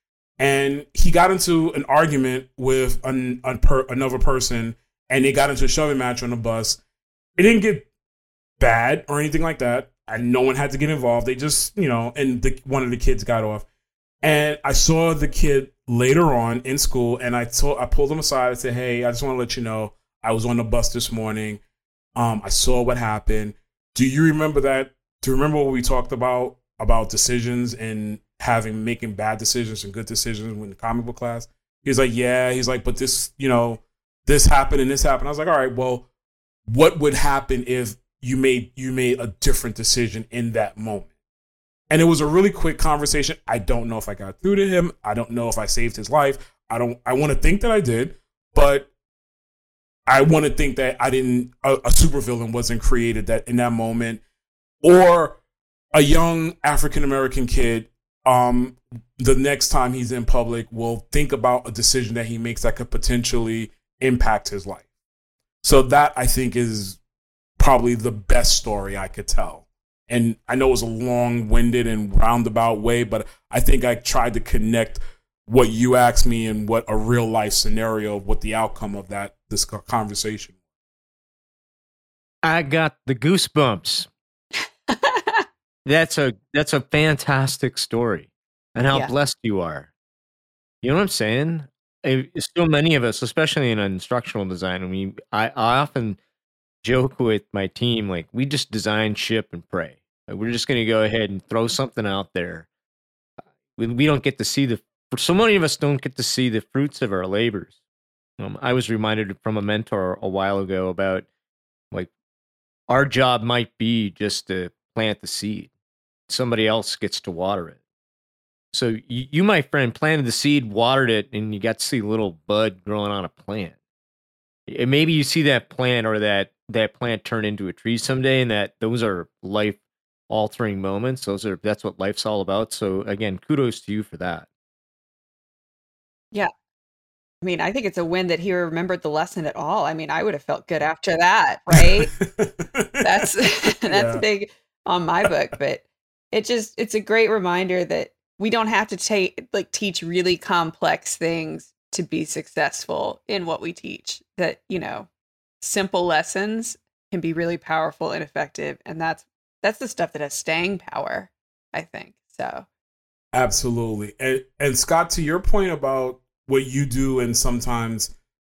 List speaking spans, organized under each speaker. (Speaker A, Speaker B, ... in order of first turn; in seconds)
Speaker A: 0.4-6.8, 7.4-7.9, 8.6-13.7, 14.2-21.6, 22.2-36.0, 36.7-41.1, 41.9-48.9, 50.1-54.2, 54.8-55.4, 55.9-64.9, 65.6-67.0, 67.6-80.5, 141.7-143.3, 143.9-144.2, 163.3-168.1
Speaker B: 82.4-84.1, 85.9-89.9, 90.8-96.2, 96.8-102.7, 103.8-107.8, 108.4-111.3, 112.9-115.7, 116.3-117.8, 118.7-123.8, 124.7-129.8, 130.3-134.5
Speaker C: 84.9-85.5, 137.4-142.2, 143.0-155.1, 155.6-162.7